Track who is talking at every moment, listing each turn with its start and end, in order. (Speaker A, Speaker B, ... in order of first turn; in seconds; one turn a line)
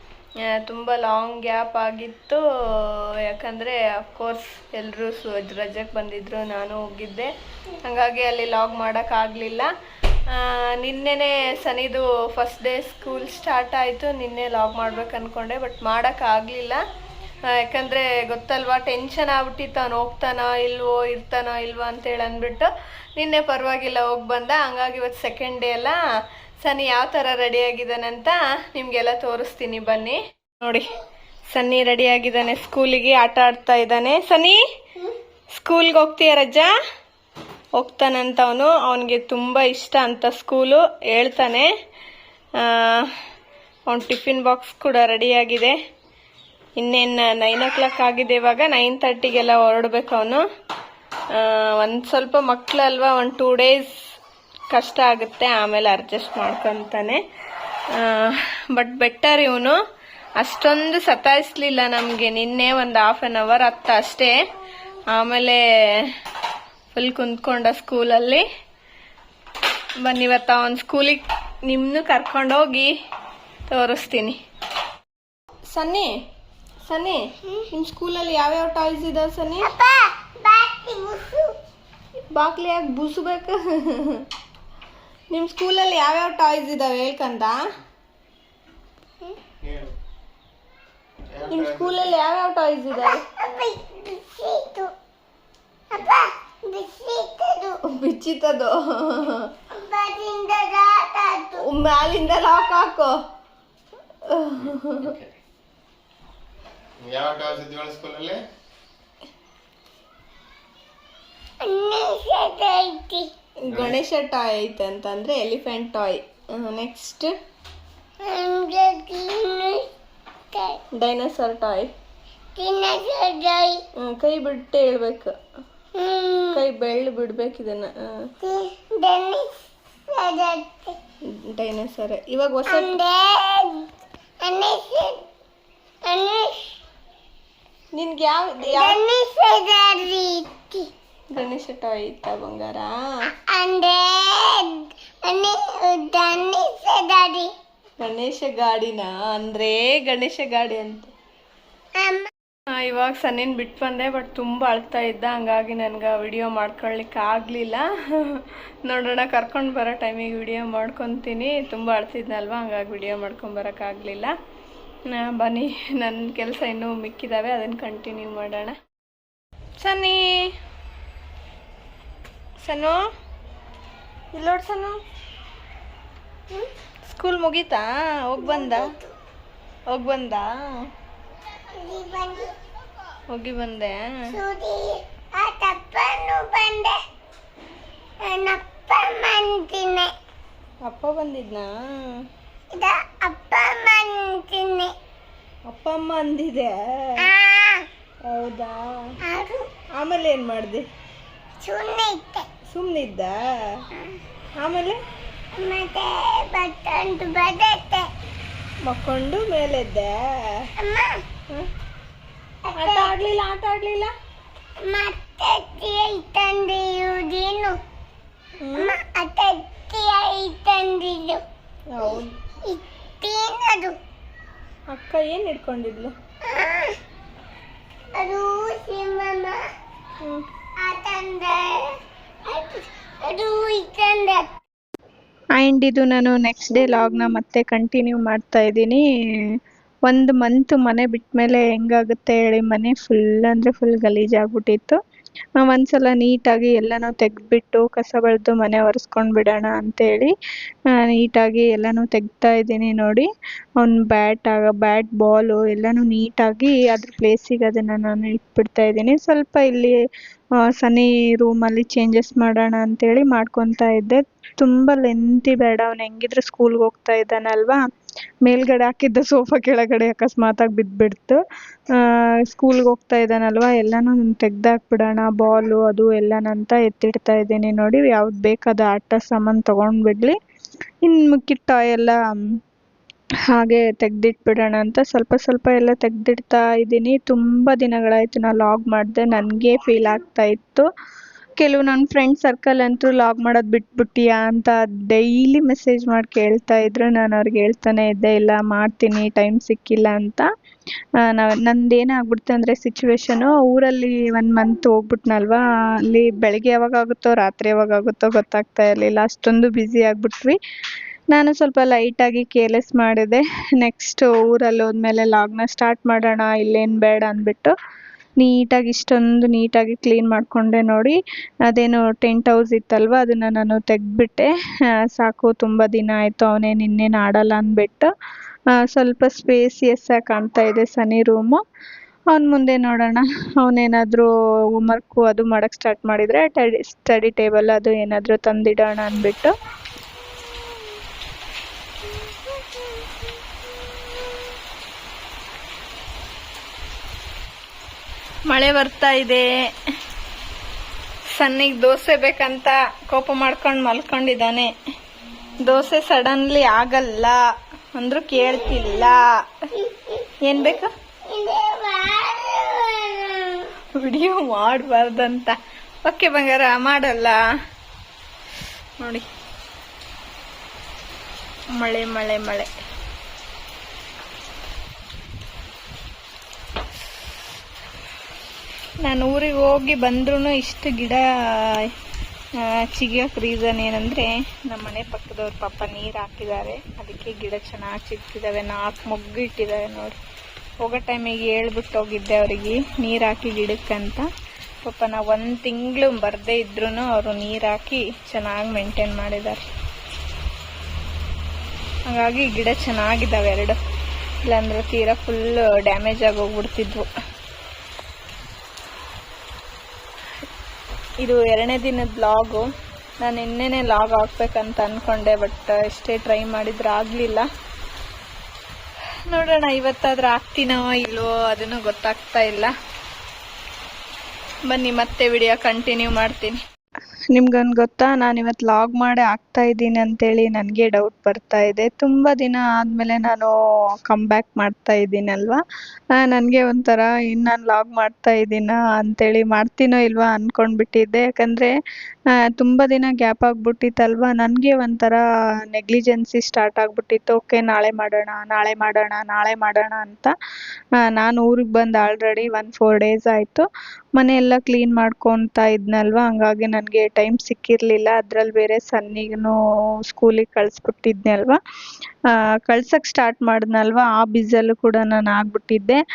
Speaker A: 0.5-7.3
Speaker A: 7.8-9.7
Speaker A: 10.8-16.8
Speaker A: 17.5-26.0
Speaker A: 26.6-30.9
Speaker A: 31.5-34.6
Speaker A: 35.5-36.7
Speaker A: 37.8-41.7
Speaker A: 42.6-43.1
Speaker A: 43.9-45.8
Speaker A: 46.8-50.4
Speaker A: 51.4-53.9
Speaker A: 54.7-57.2
Speaker A: 58.0-59.8
Speaker A: 60.4-64.3
Speaker A: 65.1-65.6
Speaker A: 66.9-68.4
Speaker A: 70.0-72.9
Speaker A: 73.7-74.4
Speaker A: 75.7-76.1
Speaker A: 76.8-79.7
Speaker B: 79.6-81.5
Speaker A: 82.3-84.2
Speaker A: 85.3-87.5
Speaker C: 89.6-89.9
Speaker C: 91.3-92.1
Speaker A: 91.5-93.2
Speaker B: 92.9-94.9
Speaker B: 95.9-97.8
Speaker A: 97.9-99.5
Speaker B: 99.7-101.7
Speaker A: 101.6-103.1
Speaker A: 104.3-105.1
Speaker C: 104.6-105.3
Speaker C: 107.0-108.4
Speaker B: 111.6-113.3
Speaker A: 113.6-117.3
Speaker C: 113.7-114.0
Speaker B: 118.2-119.9
Speaker B: 120.5-120.8
Speaker A: 120.9-121.9
Speaker B: 122.5-123.8
Speaker A: 124.0-125.3
Speaker B: 125.9-126.6
Speaker A: 126.5-128.2
Speaker B: 128.4-131.0
Speaker A: 131.3-133.0
Speaker B: 132.7-133.9
Speaker B: 134.4-135.2
Speaker B: 136.0-136.7
Speaker A: 137.9-139.0
Speaker B: 138.6-140.9
Speaker A: 141.3-142.9
Speaker B: 143.5-147.5
Speaker A: 148.0-151.1
Speaker B: 152.0-152.3
Speaker A: 152.7-164.3
Speaker A: 165.1-168.7
Speaker A: 169.8-170.5
Speaker A: 172.6-173.0
Speaker A: 174.3-175.0
Speaker A: 177.1-178.9
Speaker B: 178.4-179.1
Speaker A: 179.9-180.5
Speaker B: 181.7-182.6
Speaker A: 183.3-184.3
Speaker B: 184.3-187.0
Speaker B: 188.2-190.1
Speaker A: 190.8-191.7
Speaker B: 192.7-194.9
Speaker A: 195.7-197.3
Speaker B: 197.2-197.9
Speaker A: 198.2-199.1
Speaker B: 199.2-199.7
Speaker A: 199.9-200.8
Speaker B: 201.6-202.5
Speaker A: 202.7-203.3
Speaker B: 203.9-204.2
Speaker A: 204.6-205.0
Speaker B: 205.5-208.1
Speaker A: 208.8-210.7
Speaker B: 210.8-211.2
Speaker B: 212.7-213.1
Speaker A: 212.8-214.1
Speaker B: 214.8-217.8
Speaker A: 218.6-218.9
Speaker B: 218.8-221.4
Speaker A: 221.9-222.3
Speaker B: 222.1-224.0
Speaker A: 224.9-226.1
Speaker B: 226.4-227.0
Speaker B: 228.1-229.6
Speaker B: 230.8-234.5
Speaker A: 235.6-239.6
Speaker A: 240.1-245.0
Speaker A: 245.6-250.3
Speaker A: 250.9-253.3
Speaker A: 253.8-259.9
Speaker A: 260.6-267.8
Speaker A: 268.4-271.4
Speaker A: 271.9-280.4
Speaker A: 281.0-282.4
Speaker A: 283.5-290.8
Speaker A: 291.6-300.5
Speaker A: 301.2-310.6
Speaker A: 311.3-317.7
Speaker A: 318.4-321.2
Speaker A: 321.7-324.5
Speaker A: 325.1-328.1
Speaker A: 328.8-331.6
Speaker A: 332.3-339.5
Speaker A: 348.5-349.4
Speaker A: 351.3-354.7
Speaker A: 355.6-357.4
Speaker A: 357.9-359.2
Speaker B: 358.8-359.1
Speaker B: 359.8-360.3
Speaker A: 360.4-360.9
Speaker B: 361.3-363.7
Speaker A: 364.0-367.4
Speaker A: 369.0-369.3
Speaker A: 371.8-372.7
Speaker A: 379.0-381.9
Speaker A: 382.6-390.2
Speaker A: 390.8-394.2
Speaker A: 394.8-399.6
Speaker A: 402.1-403.8
Speaker A: 404.4-407.1
Speaker A: 411.2-412.7
Speaker A: 413.2-417.5
Speaker A: 419.3-422.7
Speaker A: 424.7-426.6
Speaker A: 427.3-433.5
Speaker A: 434.1-435.6
Speaker A: 436.1-441.7
Speaker A: 442.3-450.3
Speaker A: 451.0-461.6
Speaker A: 462.3-466.0